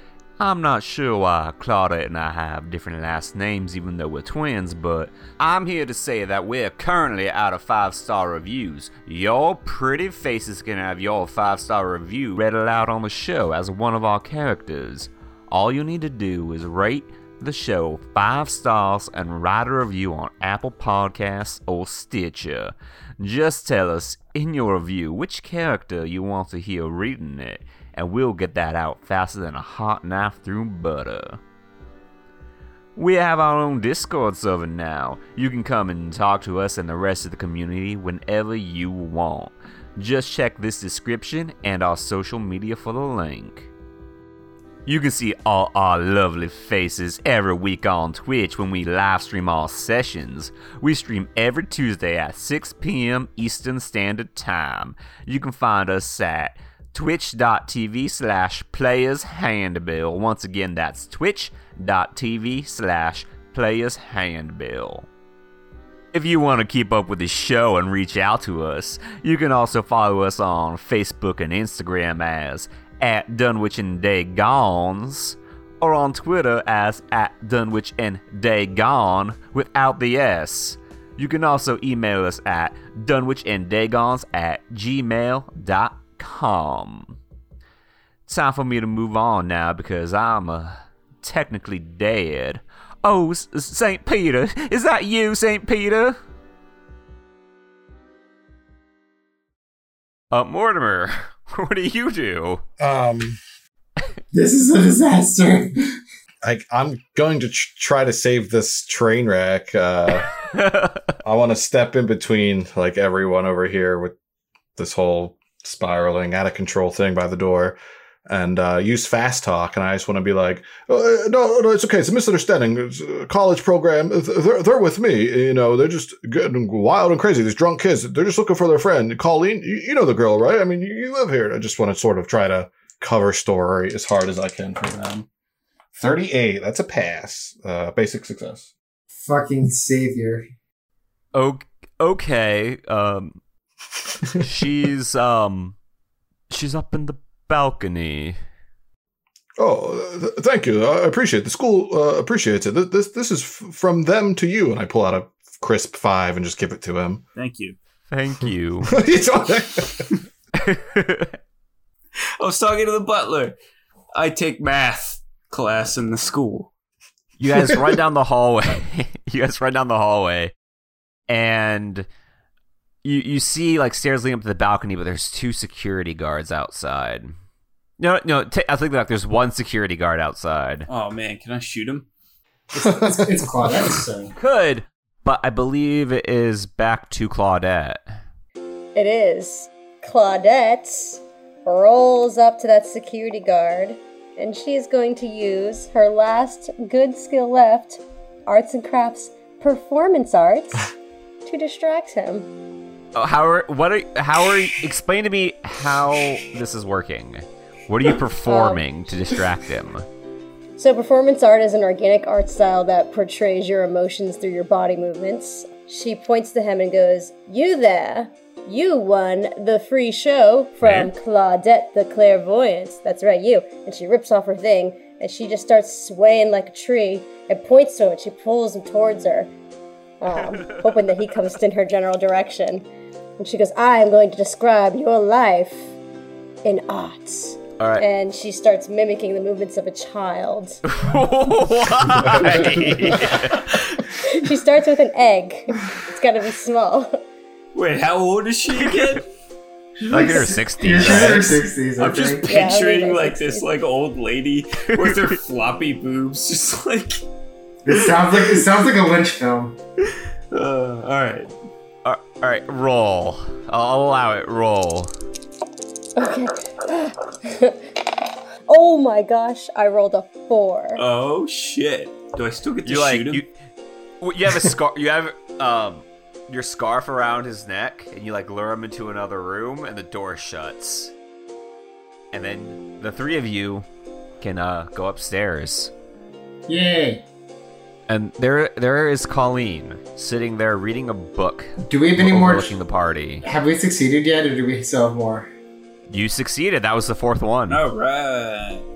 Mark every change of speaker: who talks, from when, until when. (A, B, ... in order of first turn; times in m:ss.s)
0:00.4-0:31.4 A
0:33.0-0:43.7 A
0:44.9-1:05.1 A
1:06.1-1:27.2 A
1:28.3-1:36.2 A
1:40.3-1:42.6 A
1:42.8-1:43.4 B
1:44.3-1:46.0 C
1:46.4-1:50.3 B
1:50.5-1:51.1 A
1:51.2-1:54.1 B
1:54.8-2:15.3 B
2:16.0-2:18.7 B
2:19.2-2:20.5 C
2:21.3-2:23.4 A
2:24.4-2:25.8 A
2:26.5-2:28.4 A
2:29.6-2:37.2 B
2:37.4-2:37.8 D
2:38.1-2:39.0 A
2:38.9-2:40.0 B
2:40.6-2:41.3 A
2:42.4-2:43.6 D
2:44.2-2:46.7 D
2:47.4-2:50.5 A
2:51.3-2:52.1 A
2:53.0-2:57.3 A
2:58.0-3:00.9 A
3:00.9-3:02.1 D
3:02.7-3:04.3 C
3:02.8-3:03.3 B
3:04.4-3:08.0 A
3:09.0-3:20.9 E
3:21.4-3:22.5 E
3:23.2-3:30.0 A
3:28.5-3:28.8 E
3:30.8-3:49.5 E
3:40.8-3:41.1 A
3:50.2-3:52.9 E
3:50.6-3:50.9 A
3:53.4-3:55.9 E
3:56.6-4:00.8 E
3:57.8-3:58.0 A
4:00.9-4:04.0 A
4:04.2-4:07.2 E
4:07.7-4:09.2 D
4:08.7-4:09.2 A
4:10.0-4:12.5 C
4:10.1-4:11.7 A
4:11.0-4:17.2 D
4:12.5-4:13.7 E
4:15.0-4:15.4 A
4:17.8-4:19.8 C
4:18.0-4:18.6 D
4:20.5-4:21.5 D
4:22.0-4:25.1 A
4:26.2-4:27.8 E
4:28.7-4:31.0 E
4:31.0-4:33.4 D
4:32.8-4:33.5 A
4:34.2-4:41.1 A
4:42.3-4:43.8 A
4:44.4-4:45.9 A
4:46.7-4:47.2 C
4:48.1-4:53.4 A
4:51.9-4:52.8 C
4:53.4-4:55.5 C
4:56.1-4:57.8 A
4:57.7-4:58.8 D